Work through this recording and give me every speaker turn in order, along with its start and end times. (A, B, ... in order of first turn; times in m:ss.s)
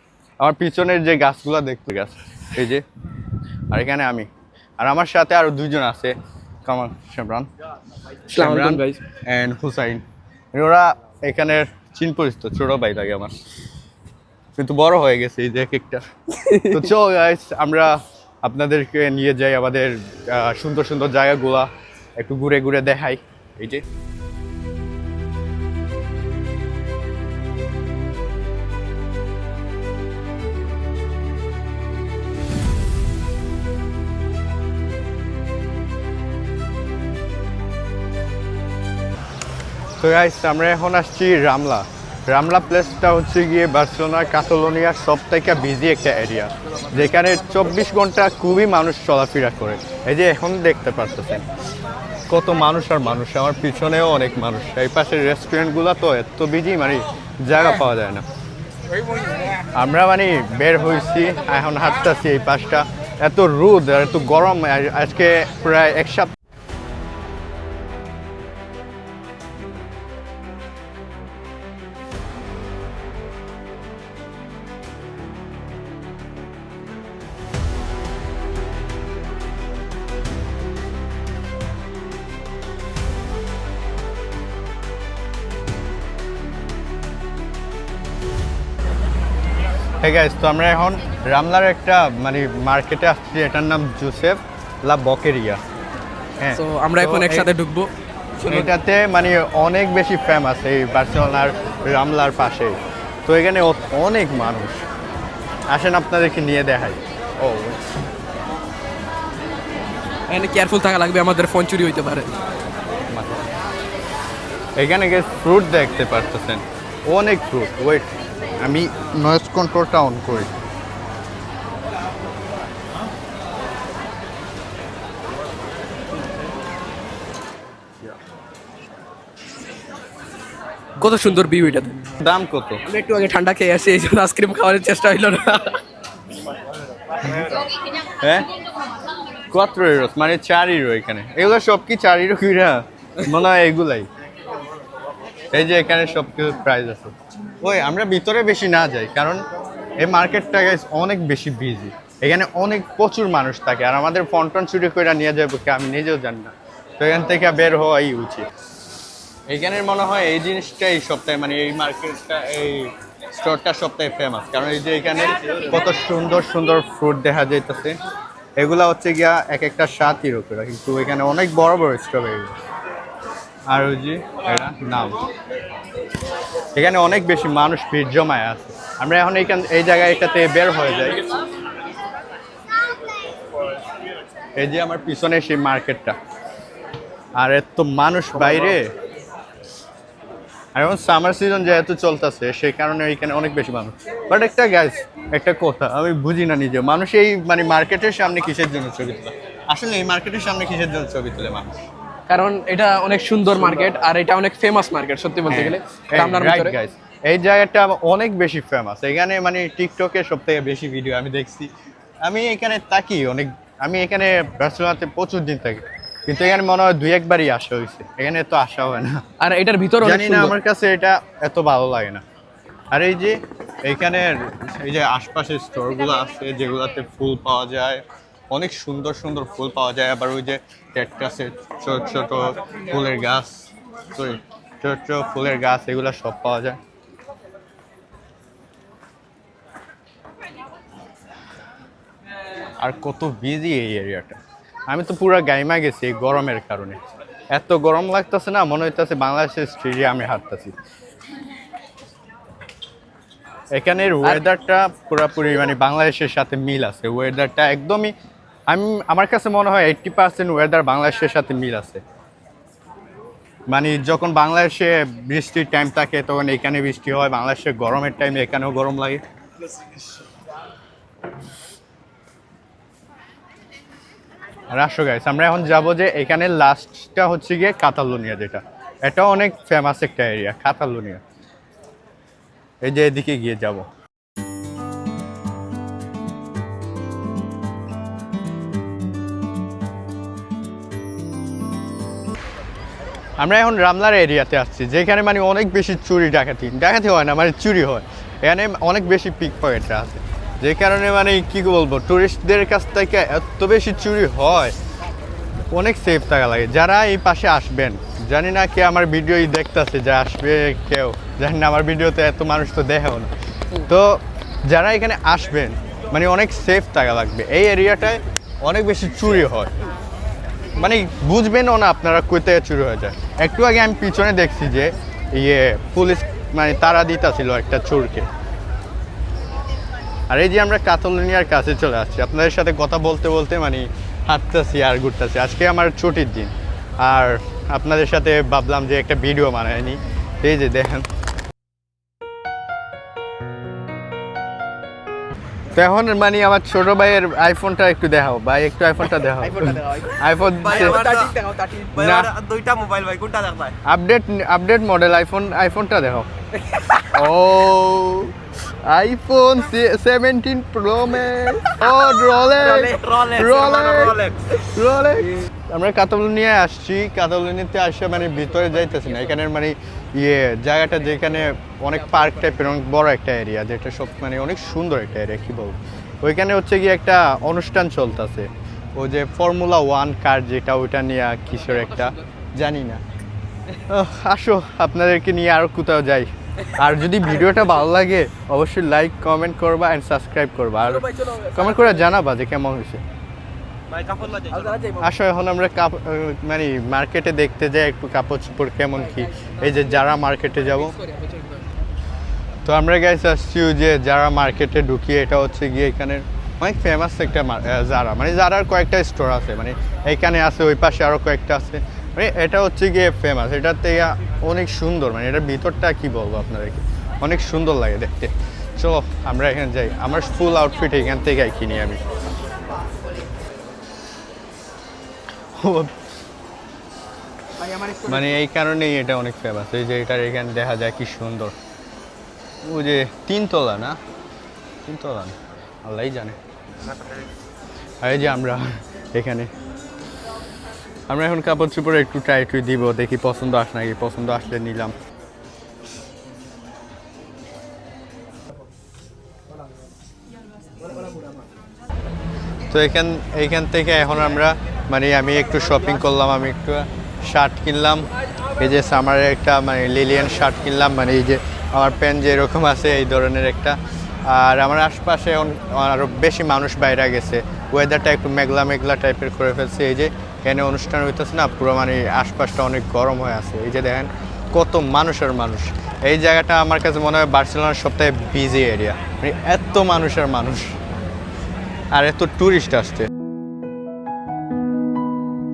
0:00.4-0:02.8 A
0:03.7-0:04.3 A
0:04.8-0:07.5 A
0:08.3-0:13.4 A
0:08.3-0:09.0 B
0:14.6-0:16.1 A
0:16.3-0:16.9 B
0:16.6-0:23.8 A
0:40.0-0:51.5 A
0:52.3-0:58.3 A
0:59.8-1:06.3 A
1:30.0-1:35.6 A
1:36.4-1:37.5 A
1:36.5-1:38.7 B
1:38.5-1:44.8 A
1:45.7-1:47.8 A
1:50.3-1:52.3 B
1:53.1-1:53.4 A
1:54.8-1:58.1 A
1:58.6-2:00.5 A
2:11.0-2:12.0 B
2:12.2-2:12.8 A
2:12.9-2:15.8 B
2:17.2-2:17.5 A
2:18.2-2:18.5 A
2:19.5-2:24.1 A
2:25.5-2:29.4 A
2:30.0-2:38.5 A
2:39.5-2:48.0 A
2:48.6-2:52.6 A
2:53.7-2:55.2 A
2:56.7-3:01.2 A
3:04.6-3:06.2 A
3:07.4-3:08.9 A
3:10.8-3:21.8 A
3:22.3-3:26.8 B
3:25.5-3:31.7 A
3:32.2-3:39.2 A
3:39.4-3:40.6 B
3:40.0-3:42.2 A
3:42.9-3:56.8 A
4:02.8-4:07.0 A
4:07.5-4:10.8 A
4:13.8-4:18.1 A
4:18.7-4:22.0 A
4:23.7-4:29.2 A
4:34.7-4:41.2 A
4:42.8-4:43.9 A
4:53.4-5:04.8 A
5:05.7-5:19.7 A
5:20.8-5:28.3 A
5:30.3-5:41.1 A
5:45.7-5:51.0 A
5:49.3-5:51.9 B
5:50.7-5:51.3 C
5:51.9-5:53.8 C
5:52.0-5:52.3 A
5:53.8-5:56.3 A
5:56.6-5:57.0 B
5:57.0-6:23.0 A
6:02.9-6:04.5 C
6:09.0-6:09.3 B
6:12.2-6:12.6 B
6:21.7-6:22.2 B
6:23.8-6:33.0 A
6:30.8-6:32.2 B
6:33.9-6:34.6 C
6:34.5-6:35.1 B
6:35.0-6:41.0 A
6:40.7-6:41.7 B
6:42.6-7:02.0 A
7:05.6-7:06.0 A
7:07.6-7:08.3 B
7:08.0-7:11.6 A
7:12.6-7:14.0 A
7:14.8-7:16.4 A
7:18.0-7:19.5 A
7:21.1-7:25.0 A
7:32.7-8:00.8 A
8:01.9-8:03.1 A